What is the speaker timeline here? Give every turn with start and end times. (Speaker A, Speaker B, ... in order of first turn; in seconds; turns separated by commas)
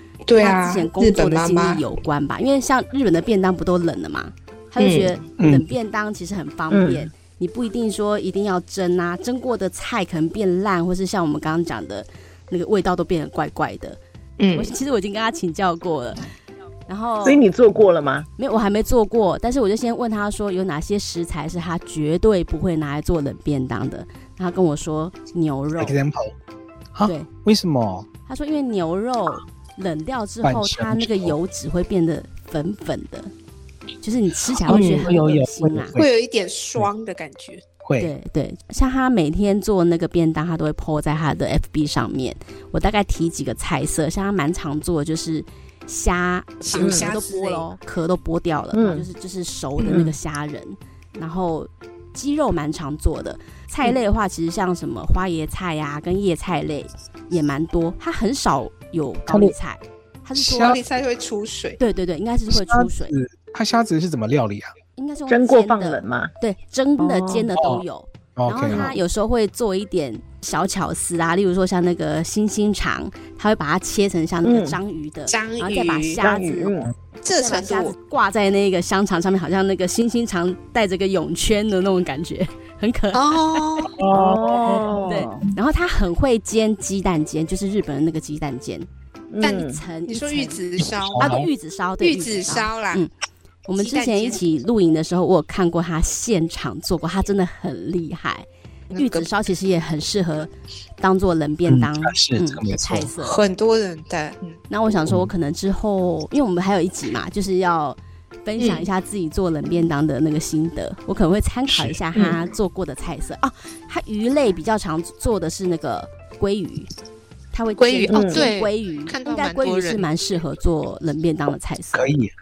Speaker A: 0.3-1.8, Speaker B: 0.4-14.0, Speaker A: 4.8-5.2, Speaker C: 5.4-5.7, Speaker D: 6.7-7.1, Speaker A: 14.4-14.7, Speaker B: 14.6-16.3, Speaker B: 16.9-17.4, Speaker D: 17.2-18.3, Speaker B: 18.4-26.0, Speaker C: 25.8-26.3, Speaker C: 26.9-28.1, Speaker B: 28.3-33.3, Speaker C: 30.4-31.4, Speaker B: 34.0-36.0, Speaker C: 34.6-36.1, Speaker A: 34.7-35.1, Speaker A: 36.0-37.6, Speaker C: 37.8-38.1, Speaker B: 38.0-60.8, Speaker A: 46.6-47.7, Speaker D: 46.8-47.1, Speaker D: 48.7-49.1, Speaker D: 49.8-50.1, Speaker C: 59.3-59.5, Speaker C: 60.4-60.8, Speaker A: 60.5-61.8, Speaker B: 61.8-63.1, Speaker C: 62.5-64.7, Speaker B: 65.0-83.6, Speaker D: 65.3-66.3, Speaker D: 67.0-67.5, Speaker C: 67.5-67.8, Speaker C: 68.4-68.9, Speaker D: 68.7-69.0, Speaker D: 74.5-74.8, Speaker A: 75.3-76.2, Speaker D: 76.2-76.9, Speaker A: 77.2-78.0, Speaker A: 83.1-84.0, Speaker C: 84.0-85.0, Speaker D: 84.1-85.4, Speaker B: 85.0-88.9, Speaker D: 89.3-89.8, Speaker B: 89.4-90.6, Speaker A: 89.4-91.3, Speaker C: 90.8-91.5, Speaker B: 91.2-93.1, Speaker A: 92.0-93.0, Speaker B: 93.7-100.5, Speaker A: 93.8-94.4, Speaker A: 98.9-99.3, Speaker B: 101.0-103.4, Speaker C: 101.7-103.1, Speaker A: 103.2-104.5, Speaker B: 104.7-116.9, Speaker A: 108.6-108.9, Speaker C: 111.7-112.0, Speaker A: 112.1-112.4, Speaker B: 117.5-122.1, Speaker A: 117.8-120.0, Speaker D: 118.1-118.5, Speaker C: 121.9-122.3